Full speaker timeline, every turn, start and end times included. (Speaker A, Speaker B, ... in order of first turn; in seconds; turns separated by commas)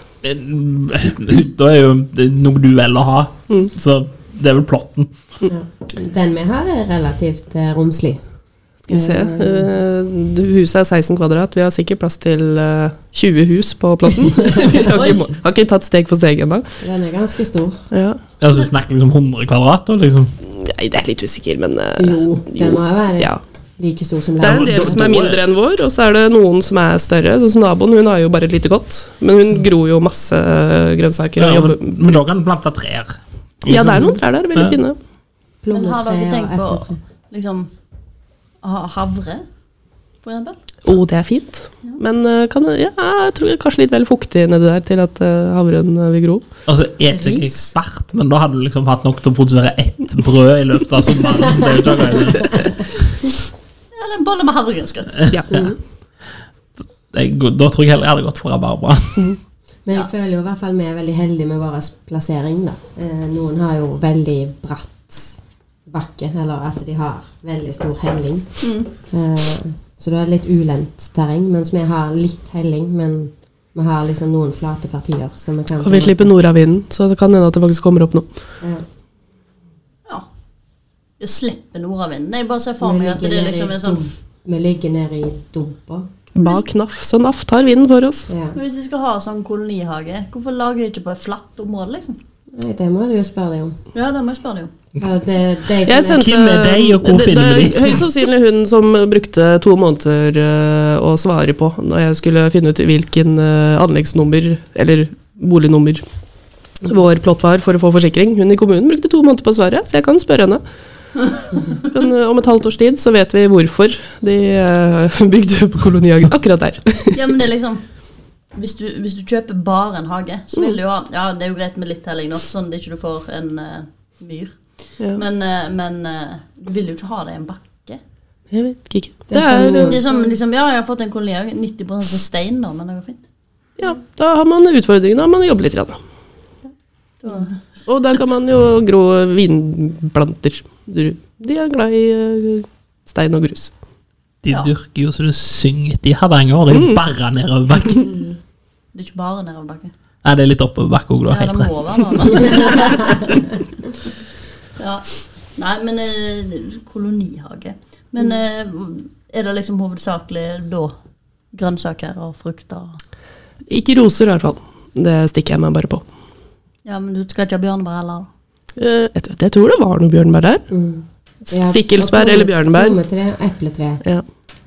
Speaker A: 0.2-5.1, Speaker B: 5.5-8.2, Speaker C: 8.9-16.8, Speaker B: 8.9-9.7, Speaker D: 14.9-15.2, Speaker B: 16.8-17.9, Speaker C: 17.9-18.2, Speaker A: 18.4-20.3, Speaker C: 20.4-23.4, Speaker B: 22.0-25.2, Speaker C: 24.4-32.2, Speaker A: 24.4-25.4, Speaker A: 31.4-34.8, Speaker C: 33.7-35.0, Speaker B: 35.6-37.0, Speaker D: 35.7-37.7, Speaker D: 38.6-39.5, Speaker D: 40.2-40.6, Speaker C: 40.9-46.5, Speaker A: 46.7-52.8, Speaker D: 47.1-47.7, Speaker D: 53.9-55.2, Speaker A: 55.2-55.6, Speaker B: 55.5-55.8, Speaker A: 57.1-59.3, Speaker B: 59.9-76.3, Speaker D: 68.6-68.9, Speaker C: 75.8-78.3, Speaker D: 81.2-84.1, Speaker B: 82.8-86.1, Speaker C: 86.4-88.3, Speaker D: 86.4-86.7, Speaker B: 88.3-88.6, Speaker D: 88.5-92.2, Speaker B: 92.5-93.8, Speaker D: 93.9-94.7, Speaker B: 95.0-96.3, Speaker C: 95.9-106.0, Speaker A: 96.1-98.0, Speaker C: 106.8-110.6, Speaker C: 111.7-117.2, Speaker D: 117.1-117.8, Speaker D: 118.5-128.0, Speaker C: 128.5-130.0, Speaker B: 129.3-130.4, Speaker D: 129.7-133.2, Speaker C: 133.8-136.0, Speaker D: 137.2-137.6, Speaker C: 137.9-143.7, Speaker A: 144.4-148.1, Speaker C: 146.7-147.0, Speaker D: 148.9-149.9, Speaker A: 150.2-152.5, Speaker D: 151.3-153.3, Speaker D: 154.8-160.9, Speaker D: 161.5-163.0, Speaker C: 163.7-166.0, Speaker D: 166.8-168.3, Speaker C: 168.8-170.7, Speaker B: 170.7-174.0, Speaker C: 171.7-173.0